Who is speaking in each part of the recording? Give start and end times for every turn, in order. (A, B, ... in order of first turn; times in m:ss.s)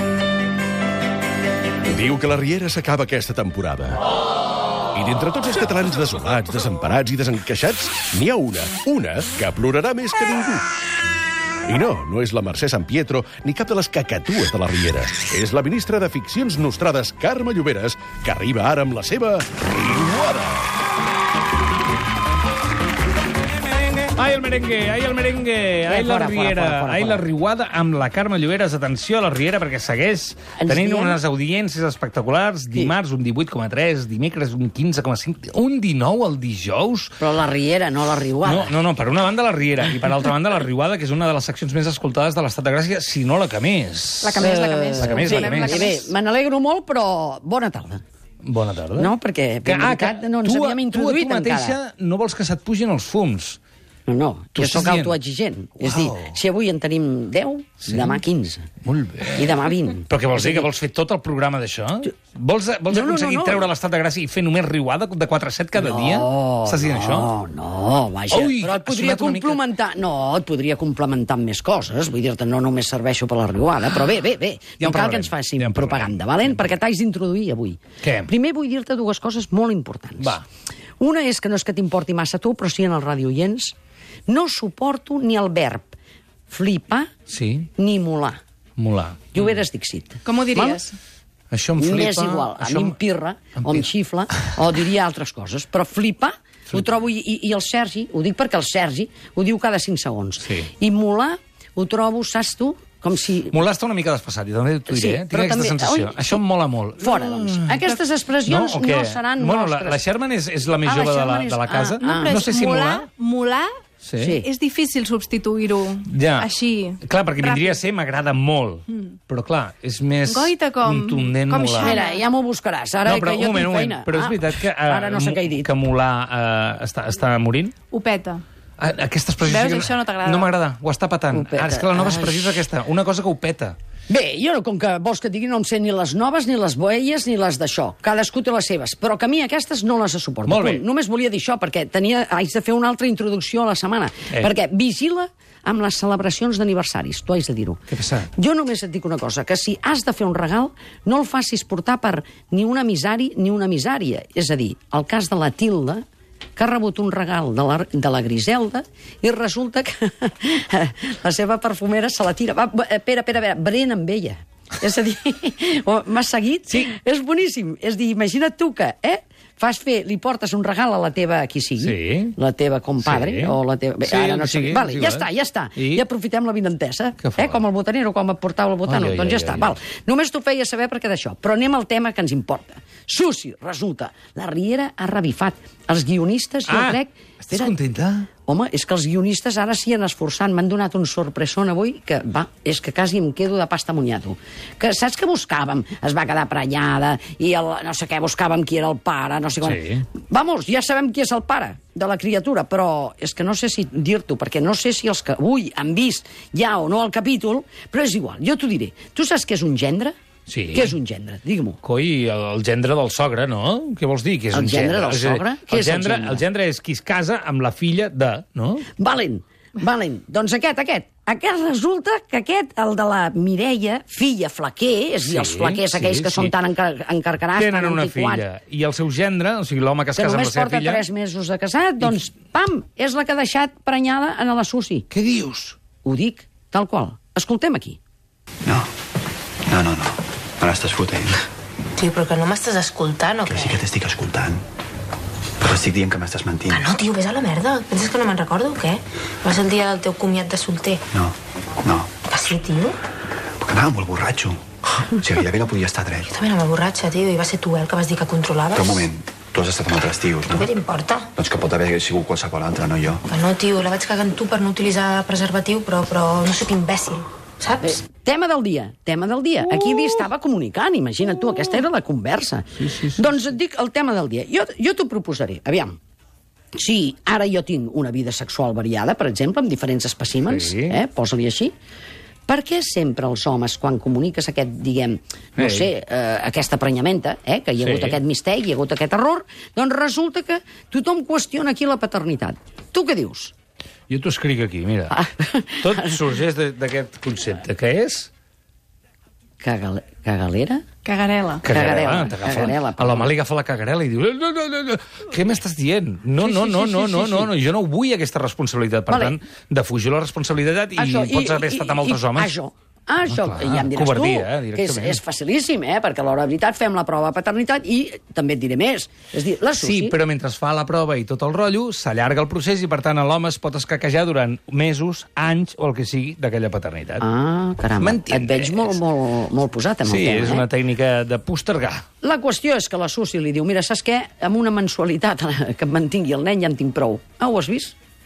0:01.9-0:04.0 A
0:04.9-0:10.6 A
0:11.6-0:20.7 A
0:23.4-0:37.1 B
0:25.9-0:27.2 C
0:30.6-0:31.2 C
0:37.2-0:38.8 C
0:38.4-0:45.9 B
0:44.2-0:46.1 D
0:44.4-0:48.0 C
0:48.4-0:49.1 B
0:49.0-0:51.8 C
0:49.6-0:53.6 B
0:54.1-0:58.7 C
0:54.6-0:55.1 B
0:55.8-0:56.3 B
0:57.8-0:58.2 B
0:58.8-1:07.3 B
0:59.3-1:00.7 C
1:02.9-1:03.7 C
1:05.8-1:20.4 C
1:08.3-1:09.6 B
1:14.8-1:16.1 B
1:18.0-1:18.3 B
1:21.0-1:23.7 C
1:24.3-1:25.9 C
1:26.5-1:27.1 C
1:27.3-1:27.7 B
1:27.8-1:28.4 C
1:28.8-1:29.5 B
1:29.3-1:30.8 C
1:30.2-1:31.0 D
1:31.5-1:32.9 B
1:31.8-1:43.6 C
1:33.6-1:33.8 B
1:43.5-1:53.1 B
1:44.9-1:46.4 C
1:47.0-1:50.0 C
1:50.8-1:52.4 C
1:52.0-1:53.7 D
1:54.0-1:54.3 B
1:54.2-1:54.5 C
1:54.4-1:57.8 D
1:56.1-1:56.5 B
1:57.0-2:02.0 B
2:00.2-2:02.2 D
2:01.8-2:05.7 C
2:03.0-2:07.7 B
2:07.9-2:08.4 D
2:08.8-2:13.8 B
2:09.4-2:10.5 D
2:11.3-2:12.6 C
2:14.1-2:27.8 C
2:20.5-2:20.8 B
2:27.9-2:28.3 B
2:28.4-2:36.0 C
2:36.6-3:07.7 C
2:51.8-2:52.3 B
2:53.0-2:55.2 B
2:57.2-2:57.6 B
2:58.9-2:59.7 B
3:06.7-3:08.3 B
3:08.5-3:30.1 C
3:19.6-3:20.0 B
3:30.5-3:30.9 B
3:30.7-3:31.8 C
3:31.8-3:38.9 B
3:34.5-3:36.4 C
3:39.0-3:48.4 C
3:45.2-3:46.5 B
3:47.5-3:51.0 B
3:50.2-3:55.1 C
3:55.1-3:55.8 B
3:56.0-3:58.0 C
3:59.7-4:01.4 E
4:02.0-4:03.8 F
4:03.4-4:04.6 E
4:05.6-4:06.9 E
4:06.7-4:11.0 F
4:11.1-4:12.1 E
4:12.3-4:13.0 F
4:13.6-4:16.3 E
4:16.3-4:19.0 F
4:18.7-4:20.7 E
4:20.5-4:21.3 F
4:21.4-4:23.3 E
4:23.3-4:28.0 F
4:27.8-4:36.0 C
4:32.8-4:33.4 B
4:36.7-4:41.7 C
4:40.4-4:41.0 B
4:42.5-4:53.5 C
4:45.6-4:45.9 B
4:47.8-4:48.2 B
4:54.1-4:55.1 B
4:55.1-4:56.2 C
4:55.8-4:58.3 B
4:59.6-5:00.8 C
5:01.0-5:01.6 D
5:01.6-5:12.5 B
5:01.6-5:03.3 C
5:06.4-5:07.5 C
5:09.1-5:09.4 C
5:11.0-5:20.2 C
5:13.3-5:15.2 B
5:19.8-5:27.2 B
5:27.2-5:30.6 C
5:28.0-5:29.0 B
5:30.0-5:32.0 B
5:32.2-5:37.9 C